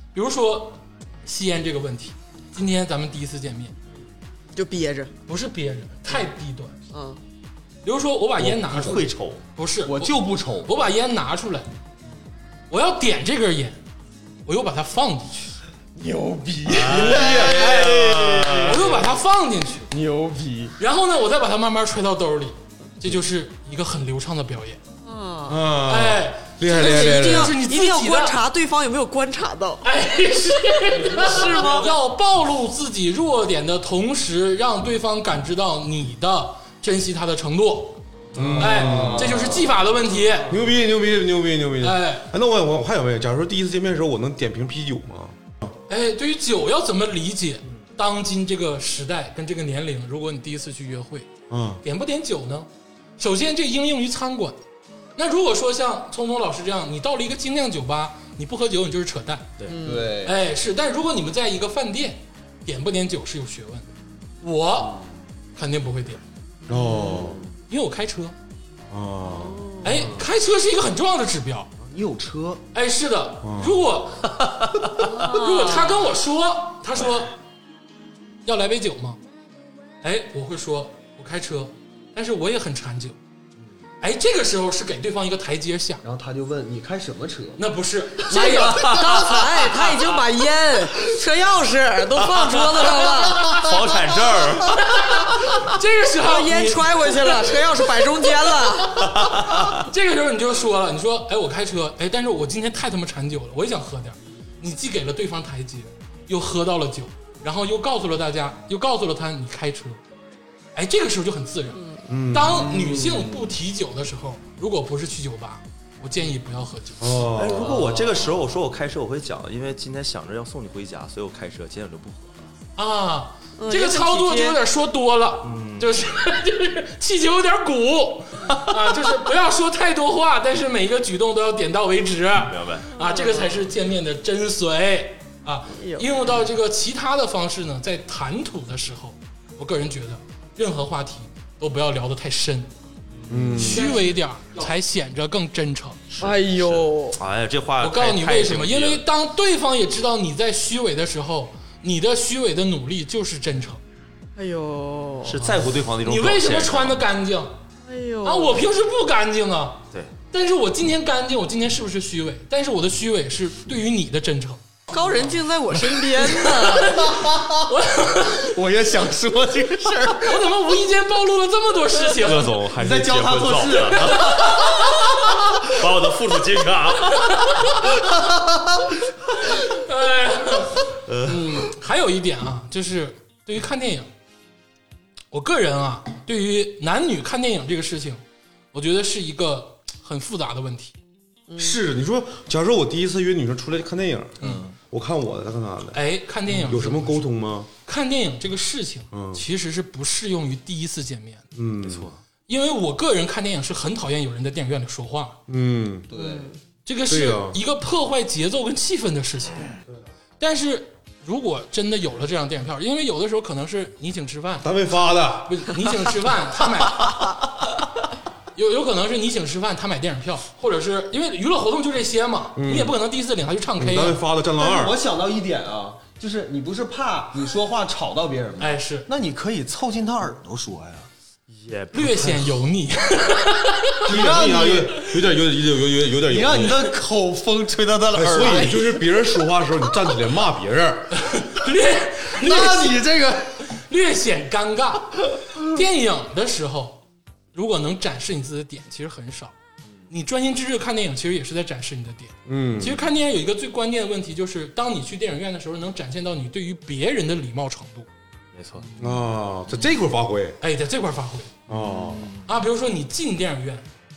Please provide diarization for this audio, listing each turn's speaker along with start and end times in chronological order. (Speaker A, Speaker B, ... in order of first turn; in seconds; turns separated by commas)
Speaker A: 0.1-3.8, Speaker B: 4.5-5.1, Speaker A: 5.3-6.8, Speaker B: 6.9-7.2, Speaker A: 7.8-11.7, Speaker C: 8.4-9.4, Speaker D: 9.8-10.7, Speaker A: 12.7-13.8, Speaker A: 14.4-15.5, Speaker D: 15.9-19.1, Speaker C: 16.7-18.9, Speaker A: 18.6-19.9, Speaker D: 19.9-20.7, Speaker A: 20.8-24.8, Speaker B: 25.1-25.7, Speaker E: 25.5-27.6, Speaker A: 25.9-28.4, Speaker B: 26.7-29.9, Speaker A: 29.8-38.0, Speaker B: 30.9-31.9, Speaker E: 38.4-39.5, Speaker D: 38.4-39.7, Speaker A: 38.6-40.5, Speaker E: 40.5-45.7, Speaker A: 41.8-42.3, Speaker A: 45.9-51.3, Speaker E: 51.5-51.8, Speaker A: 51.8-54.6, Speaker A: 55.2-59.5, Speaker B: 59.7-60.2, Speaker D: 59.8-60.4, Speaker A: 60.2-63.9, Speaker A: 64.4-65.0, Speaker D: 64.8-65.1, Speaker A: 65.6-66.2, Speaker E: 66.7-67.4, Speaker B: 66.7-67.2, Speaker D: 67.0-67.5, Speaker A: 67.7-68.3, Speaker E: 68.9-69.6, Speaker B: 69.3-70.1, Speaker A: 69.8-71.7, Speaker D: 69.9-70.3, Speaker D: 71.8-72.6, Speaker A: 72.7-74.4, Speaker E: 73.4-73.8, Speaker A: 74.9-77.3, Speaker B: 75.0-76.0, Speaker A: 78.5-79.2, Speaker A: 80.0-83.2, Speaker A: 84.0-86.0, Speaker D: 86.0-87.6, Speaker A: 87.6-89.0, Speaker B: 88.3-93.6, Speaker C: 88.8-90.0, Speaker C: 92.3-95.0, Speaker A: 93.1-93.7, Speaker A: 94.8-97.5, Speaker B: 96.2-99.2, Speaker C: 99.0-99.8, Speaker A: 99.7-110.0, Speaker A: 110.8-117.3, Speaker B: 111.8-112.1, Speaker E: 112.1-112.7, Speaker D: 112.7-113.5, Speaker E: 117.0-117.8, Speaker C: 117.3-122.5, Speaker A: 122.8-142.7, Speaker B: 123.6-124.6, Speaker C: 125.4-125.9, Speaker C: 132.5-132.9, Speaker B: 132.9-133.7, Speaker B: 135.7-136.1, Speaker C: 143.2-143.7, Speaker E: 143.3-143.9, Speaker A: 143.6-146.0, Speaker C: 146.1-149.0, Speaker B: 146.2-147.2, Speaker A: 147.8-153.8, Speaker B: 154.4-155.5, Speaker C: 155.2-157.0, Speaker A: 156.0-157.6, Speaker B: 157.9-158.7, Speaker A: 158.2-164.6, Speaker B: 164.9-167.0, Speaker A: 165.9-168.6, Speaker D: 167.1-167.6, Speaker D: 168.5-170.4, Speaker A: 170.2-172.6, Speaker C: 172.2-175.0, Speaker D: 172.7-174.9, Speaker A: 174.0-174.9, Speaker C: 175.6-177.4, Speaker A: 177.1-178.0, Speaker D: 178.3-178.6, Speaker A: 179.4-184.1, Speaker C: 181.1-181.6, Speaker A: 185.3-188.2, Speaker A: 188.7-191.0, Speaker B: 191.5-191.8, Speaker E: 191.6-197.7, Speaker C: 194.4-194.7, Speaker A: 195.9-197.3, Speaker A: 197.8-201.5, Speaker E: 199.1-199.4, Speaker E: 201.6-202.1, Speaker C: 201.8-202.2, Speaker A: 202.5-205.4, Speaker E: 205.5-206.1, Speaker D: 206.1-206.6, Speaker B: 206.1-206.6, Speaker A: 206.9-209.7, Speaker E: 207.1-207.6, Speaker A: 210.4-214.7, Speaker E: 214.6-215.7, Speaker A: 215.4-217.3, Speaker A: 218.6-224.2, Speaker E: 222.6-222.9, Speaker E: 223.8-225.0, Speaker D: 224.6-231.1, Speaker A: 228.6-229.1, Speaker C: 231.5-232.5, Speaker A: 231.9-234.1, Speaker D: 234.1-235.0, Speaker E: 234.1-236.8, Speaker D: 236.3-238.9, Speaker E: 238.1-241.2, Speaker A: 241.2-243.0, Speaker D: 242.3-243.6, Speaker A: 243.7-247.0, Speaker A: 247.5-249.6, Speaker A: 250.1-258.1, Speaker E: 252.5-253.0, Speaker C: 258.5-258.9, Speaker E: 259.0-260.6, Speaker A: 260.6-261.5, Speaker E: 261.7-262.3, Speaker C: 261.7-262.4, Speaker A: 262.5-263.9